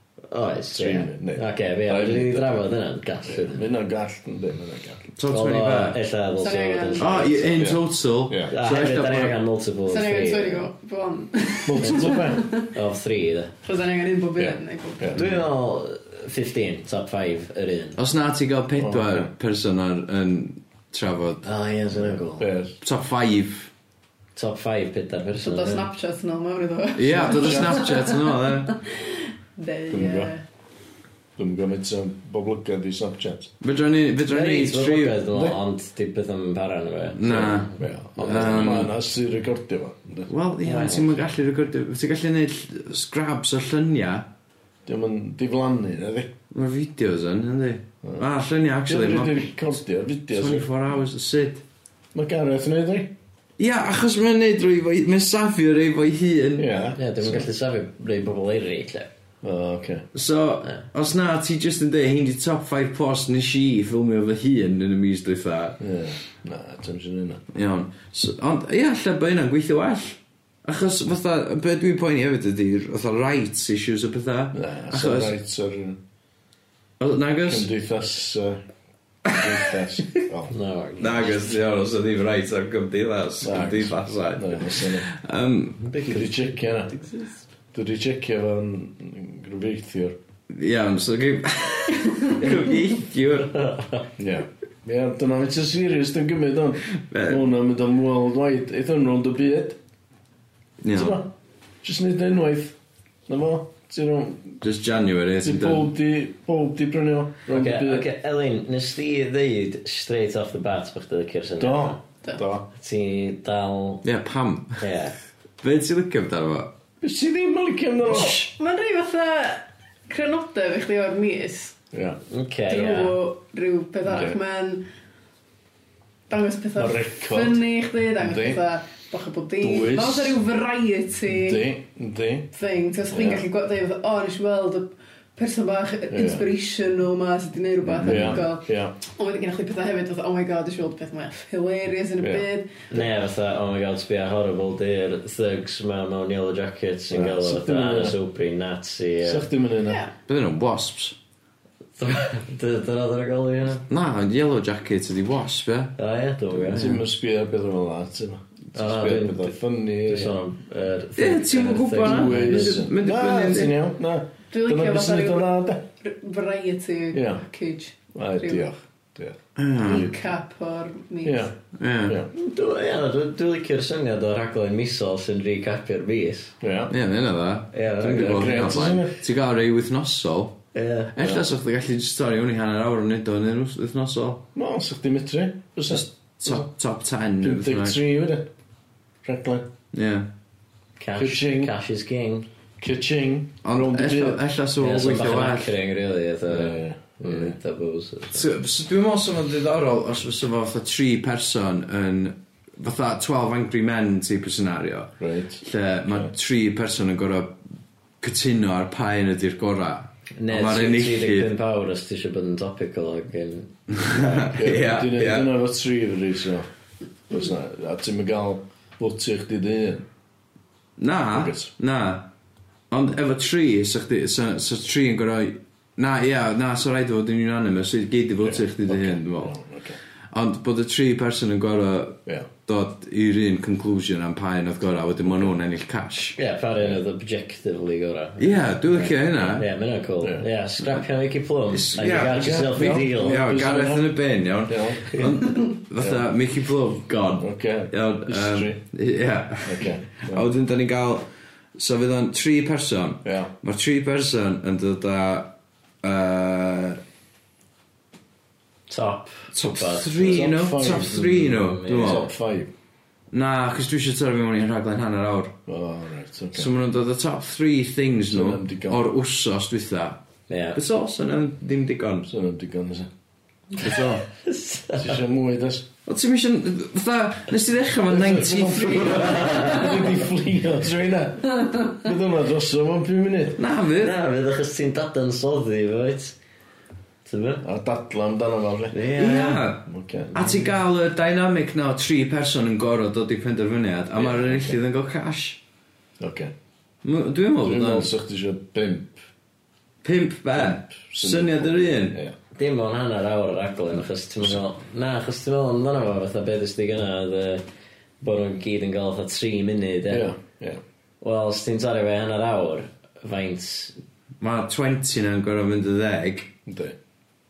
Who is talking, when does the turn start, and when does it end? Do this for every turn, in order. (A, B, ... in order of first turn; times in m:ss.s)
0:00.3-0:03.7 A
0:00.7-0:02.6 B
0:03.2-0:05.0 B
0:05.2-0:06.0 C
0:05.3-0:07.6 A
0:06.4-0:07.4 D
0:07.0-0:09.4 C
0:07.6-0:08.5 B
0:08.5-0:10.7 A
0:09.9-0:12.7 D
0:11.7-0:12.5 B
0:12.7-0:13.5 A
0:13.6-0:15.2 D
0:14.4-0:15.4 B
0:15.1-0:18.0 A
0:18.0-0:21.5 C
0:18.8-0:19.3 B
0:21.4-0:22.5 A
0:22.0-0:22.8 B
0:22.8-0:23.7 C
0:24.4-0:25.9 A
0:25.4-0:30.4 D
0:27.0-0:28.7 C
0:27.3-0:27.8 B
0:29.9-0:30.3 B
0:31.4-0:33.5 B
0:33.6-0:35.3 C
0:34.3-0:38.7 A
0:35.3-0:35.6 B
0:37.2-0:38.9 C
0:37.2-0:41.2 B
0:40.3-0:44.3 C
0:40.7-0:41.0 A
0:44.9-0:46.3 B
0:46.5-0:49.7 C
0:48.9-0:50.7 B
0:50.3-0:51.6 C
0:52.1-0:53.1 B
0:53.6-0:56.7 C
0:56.6-0:57.5 B
0:57.0-0:59.1 A
0:59.4-1:00.1 B
1:00.1-1:05.8 C
1:05.8-1:07.4 B
1:07.5-1:15.4 C
1:14.5-1:16.0 B
1:17.0-1:17.7 C
1:17.4-1:18.6 B
1:19.3-1:20.5 B
1:20.5-1:21.4 A
1:21.0-1:25.9 C
1:23.4-1:25.1 B
1:25.8-1:27.4 A
1:26.0-1:27.0 B
1:27.7-1:30.2 B
1:30.5-1:33.7 C
1:33.5-1:34.1 A
1:34.2-1:39.8 B
1:37.0-1:37.5 C
1:40.8-1:41.2 C
1:40.9-1:41.3 B
1:41.8-1:44.6 B
1:44.6-1:45.9 C
1:45.4-1:48.1 B
1:47.5-1:52.0 A
1:51.6-1:52.7 B
1:52.7-1:54.0 A
1:54.0-1:54.8 C
1:54.8-1:55.2 A
1:55.6-1:56.7 C
1:57.0-1:58.4 B
1:58.3-2:01.8 D
2:01.9-2:02.2 B
2:02.3-2:03.2 A
2:02.7-2:04.8 D
2:04.0-2:04.4 B
2:06.3-2:11.6 D
2:06.8-2:07.6 B
2:08.2-2:08.6 B
2:09.6-2:10.4 B
2:11.3-2:12.5 B
2:12.5-2:22.7 D
2:13.1-2:13.4 B
2:16.1-2:16.5 B
2:17.9-2:18.4 C
2:18.0-2:19.0 B
2:22.2-2:22.5 B
2:22.9-2:29.5 A
2:27.1-2:28.2 B
2:29.2-2:30.0 B
2:29.9-2:30.1 D
2:30.3-2:31.2 C
2:32.0-2:33.9 A
2:33.9-2:35.9 C
2:36.0-2:37.0 A
2:36.6-2:40.4 B
2:38.7-2:42.8 A
2:41.2-2:43.8 C
2:41.9-2:45.8 B
2:44.5-2:48.6 D
2:47.1-2:47.4 B
2:48.2-2:50.1 B
2:49.6-2:50.1 C
2:49.8-2:51.5 D
2:51.2-2:52.3 B
2:51.8-2:52.2 C
2:52.3-2:56.5 A
2:56.6-2:56.9 B
2:56.9-3:00.6 C
2:57.7-2:58.6 A
2:58.1-2:59.2 B
3:00.7-3:01.4 A
3:01.2-3:04.4 C
3:04.6-3:06.7 B
3:05.9-3:08.0 C
3:07.4-3:08.5 B
3:09.2-3:09.7 B
3:09.9-3:10.3 C
3:11.0-3:12.5 A
3:11.2-3:11.7 B
3:12.8-3:14.4 B
3:13.6-3:15.7 C
3:14.8-3:18.4 A
3:16.5-3:17.6 B
3:18.3-3:27.6 C
3:25.2-3:26.3 B
3:28.2-3:31.5 C
3:30.4-3:34.4 A
3:33.9-3:35.5 C
3:34.3-3:36.7 B
3:37.3-3:40.1 B
3:41.0-3:42.3 C
3:41.3-3:41.7 B
3:42.9-3:49.5 C
3:48.4-3:50.0 B
3:50.3-3:56.4 C
3:55.3-3:55.5 B
3:56.4-4:03.4 A
3:58.4-3:59.7 C
4:00.2-4:00.5 B
4:01.7-4:17.0 C
4:02.3-4:05.4 B
4:06.0-4:06.2 B
4:07.4-4:08.8 B
4:09.6-4:10.5 B
4:13.2-4:13.5 B
4:18.9-4:22.3 A
4:19.5-4:22.3 C
4:20.2-4:21.3 B
4:22.0-4:22.7 B
4:23.3-4:25.6 C
4:25.7-4:26.7 B
4:26.5-4:30.2 C
4:28.3-4:29.0 B
4:30.5-4:30.8 A
4:30.7-4:32.3 C
4:32.3-4:33.1 B
4:33.8-4:34.3 C
4:34.3-4:35.2 A
4:35.0-4:35.9 B
4:36.1-4:40.2 C
4:38.1-4:43.6 B
4:39.1-4:40.0 A
4:43.6-4:44.1 C
4:44.0-4:46.4 A
4:47.2-4:47.6 A
4:47.6-4:49.0 B
4:48.9-4:49.6 A
4:49.1-4:55.6 C
4:49.9-4:50.7 B
4:54.2-4:54.8 B
4:56.2-4:56.5 B
4:57.0-4:58.1 C
4:57.6-4:59.2 B
5:00.0-5:02.2 C
5:00.6-5:02.4 B
5:02.5-5:07.6 A
5:08.2-5:10.3 A
5:10.1-5:10.8 B
5:11.2-5:14.0 A
5:14.4-5:16.5 C
5:16.7-5:17.0 B